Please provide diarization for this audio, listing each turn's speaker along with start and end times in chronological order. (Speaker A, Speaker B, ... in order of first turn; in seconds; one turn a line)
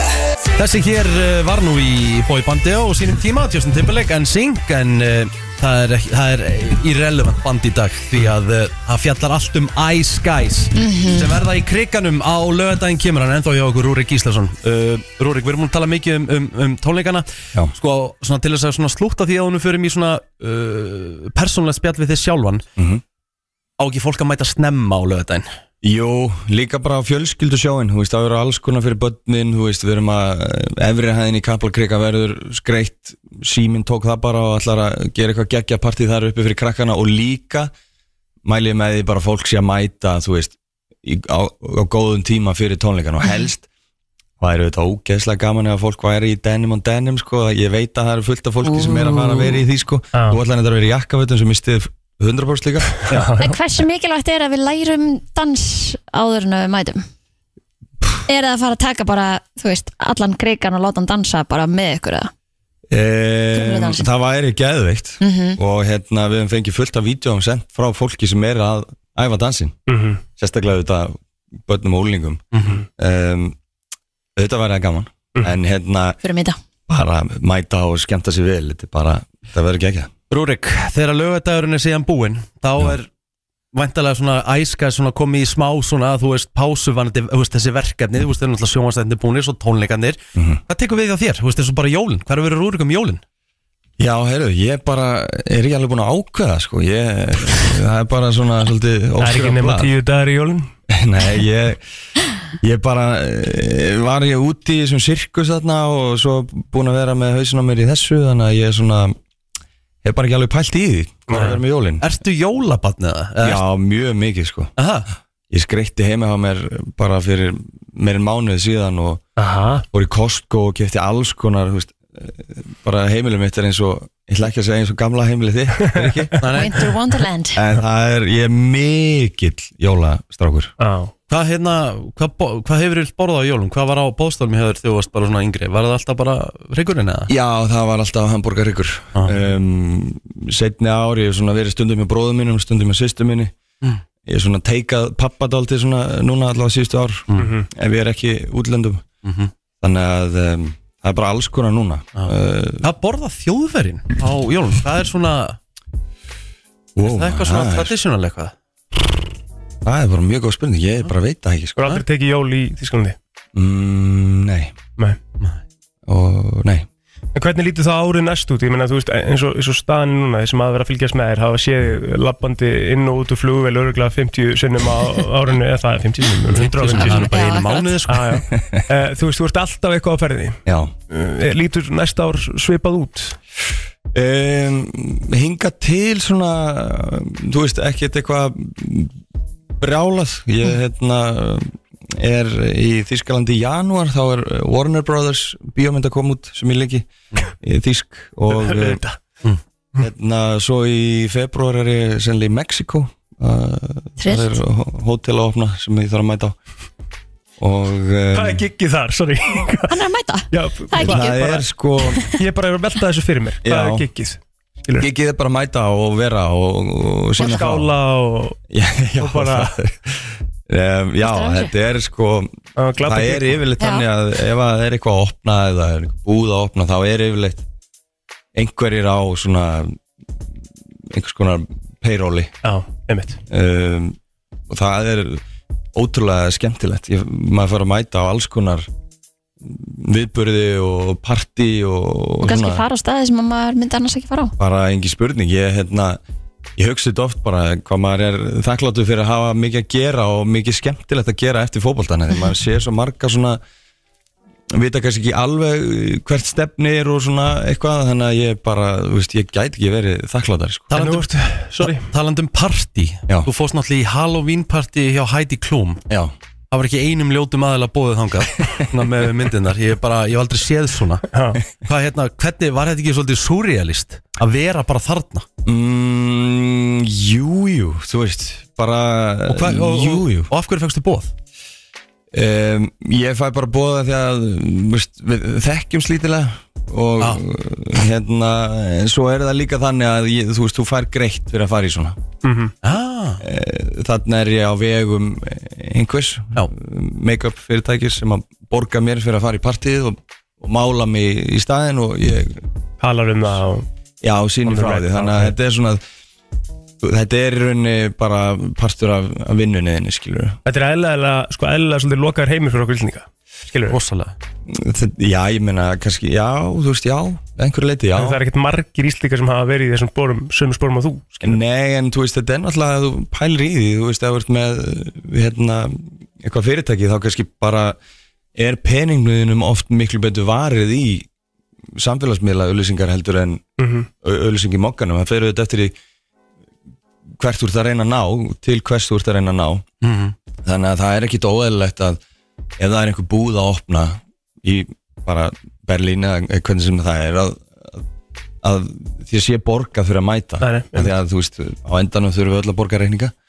Speaker A: 0.6-22.6
Speaker B: 10.7-11.3
Speaker C: 22.8-23.0
Speaker A: 23.8-25.5
Speaker C: 25.8-37.7
Speaker C: 38.4-43.6
Speaker C: 44.4-53.3
Speaker D: 50.1-50.4
Speaker D: 53.1-53.5
Speaker B: 53.4-57.0
Speaker B: 58.3-62.3
Speaker C: 62.9-69.7
Speaker B: 63.5-64.1
Speaker B: 65.2-65.6
Speaker D: 69.9-70.2
Speaker C: 70.4-72.4
Speaker A: 72.5-72.8
Speaker C: 73.0-73.5
Speaker C: 74.4-76.2
Speaker B: 76.2-76.6
Speaker C: 76.9-80.1
Speaker A: 80.3-83.1
Speaker A: 83.7-93.2
Speaker C: 90.3-90.6
Speaker C: 94.0-99.9
Speaker D: 99.2-100.7
Speaker C: 100.9-101.8
Speaker C: 102.6-109.2
Speaker C: 110.0-112.0
Speaker D: 111.3-111.6
Speaker A: 112.0-113.6
Speaker C: 113.4-114.7
Speaker A: 114.8-115.1
Speaker C: 115.5-119.2
Speaker D: 119.4-119.8
Speaker C: 119.9-126.3
Speaker A: 126.4-126.8
Speaker B: 126.5-127.6
Speaker C: 127.5-130.7
Speaker D: 130.8-131.1
Speaker A: 131.3-137.3
Speaker C: 137.3-143.5
Speaker C: 144.2-149.0
Speaker D: 147.4-147.7
Speaker A: 149.2-149.5
Speaker C: 149.8-152.9
Speaker A: 152.2-155.6
Speaker C: 157.0-157.9
Speaker A: 157.0-158.5
Speaker C: 159.8-161.8
Speaker D: 161.8-163.2
Speaker C: 163.5-164.7
Speaker C: 166.1-166.8
Speaker D: 167.3-177.3
Speaker A: 176.5-178.4
Speaker B: 176.9-178.0
Speaker D: 178.1-183.4
Speaker C: 178.5-178.8
Speaker C: 180.7-180.9
Speaker C: 184.1-189.1
Speaker C: 189.8-197.1
Speaker C: 197.6-199.0
Speaker D: 198.5-199.2
Speaker C: 200.0-206.6
Speaker B: 204.2-204.6
Speaker C: 207.6-208.6
Speaker D: 208.3-209.9
Speaker B: 209.9-211.5
Speaker D: 210.5-211.6
Speaker C: 211.0-212.2
Speaker B: 212.1-212.4
Speaker D: 212.3-215.1
Speaker C: 213.6-214.1
Speaker C: 215.0-217.9
Speaker D: 217.4-218.6
Speaker C: 218.7-222.5
Speaker D: 219.2-219.7
Speaker B: 221.2-221.7
Speaker D: 222.8-223.6
Speaker C: 223.0-227.6
Speaker B: 223.8-224.1
Speaker C: 228.5-229.9
Speaker C: 231.1-232.5
Speaker D: 232.6-233.4
Speaker C: 233.5-234.2
Speaker C: 234.7-235.4
Speaker C: 235.9-238.9
Speaker C: 239.6-242.8
Speaker B: 242.4-244.5
Speaker C: 244.6-246.2
Speaker C: 246.8-253.6
Speaker C: 254.7-260.9
Speaker A: 260.9-261.3
Speaker D: 260.9-262.1
Speaker A: 262.1-266.0
Speaker A: 266.7-271.3
Speaker D: 271.3-271.6
Speaker A: 271.8-275.4
Speaker C: 275.6-280.5
Speaker A: 279.5-281.3
Speaker C: 282.3-292.2
Speaker D: 292.4-292.7
Speaker A: 292.8-293.4
Speaker C: 293.4-302.6
Speaker D: 303.0-303.9
Speaker C: 304.2-306.0
Speaker D: 304.6-305.5
Speaker C: 307.0-310.6
Speaker D: 310.6-313.9
Speaker A: 313.9-314.4
Speaker C: 314.7-318.4
Speaker D: 318.1-321.6
Speaker C: 321.4-328.0
Speaker C: 328.5-331.2
Speaker C: 331.9-333.6
Speaker D: 333.8-334.1
Speaker C: 334.2-335.9
Speaker C: 337.4-339.8
Speaker A: 340.0-340.3
Speaker C: 340.6-342.2
Speaker C: 342.8-348.0
Speaker C: 348.6-353.3
Speaker D: 350.6-351.1